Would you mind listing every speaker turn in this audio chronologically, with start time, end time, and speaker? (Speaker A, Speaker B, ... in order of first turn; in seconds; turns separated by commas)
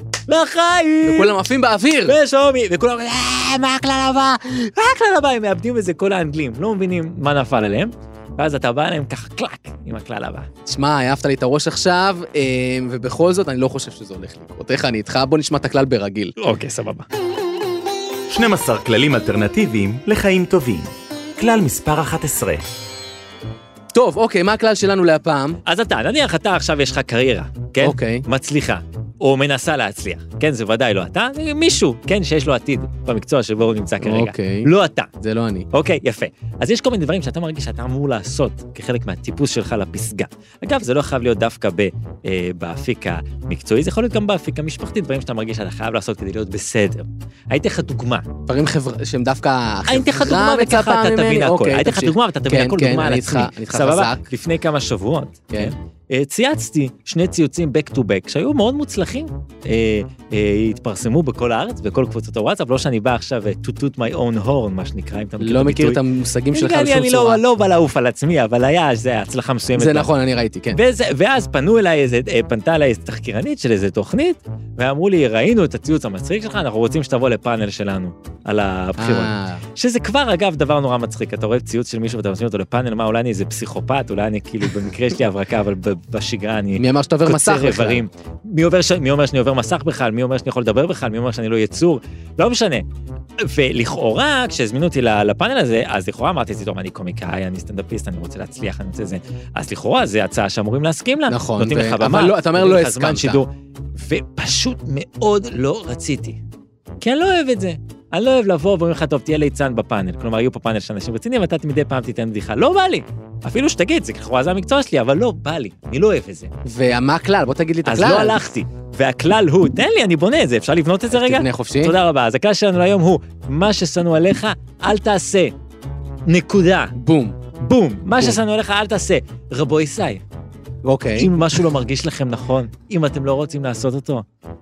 Speaker A: 0.3-1.4, Speaker B: 1.1-2.1, Speaker A: 2.1-10.5, Speaker B: 10.7-16.4, Speaker A: 16.4-17.1, Speaker C: 18.3-22.6, Speaker B: 23.9-25.6, Speaker A: 25.6-35.1, Speaker B: 27.8-28.2, Speaker B: 34.0-34.7, Speaker B: 35.2-35.7, Speaker A: 35.7-48.3, Speaker B: 48.5-54.3, Speaker A: 49.9-66.0, Speaker B: 65.4-67.4, Speaker A: 66.5-70.1, Speaker B: 69.8-70.8, Speaker A: 70.7-92.9, Speaker B: 79.0-79.6, Speaker B: 86.8-88.0, Speaker A: 93.4-106.4, Speaker B: 101.3-103.4, Speaker A: 107.0-116.5, Speaker B: 116.7-118.4, Speaker A: 117.8-125.5, Speaker B: 121.1-121.9, Speaker A: 126.3-126.9, Speaker B: 127.0-127.4, Speaker A: 127.6-130.2, Speaker B: 130.8-131.4, Speaker A: 131.2-134.2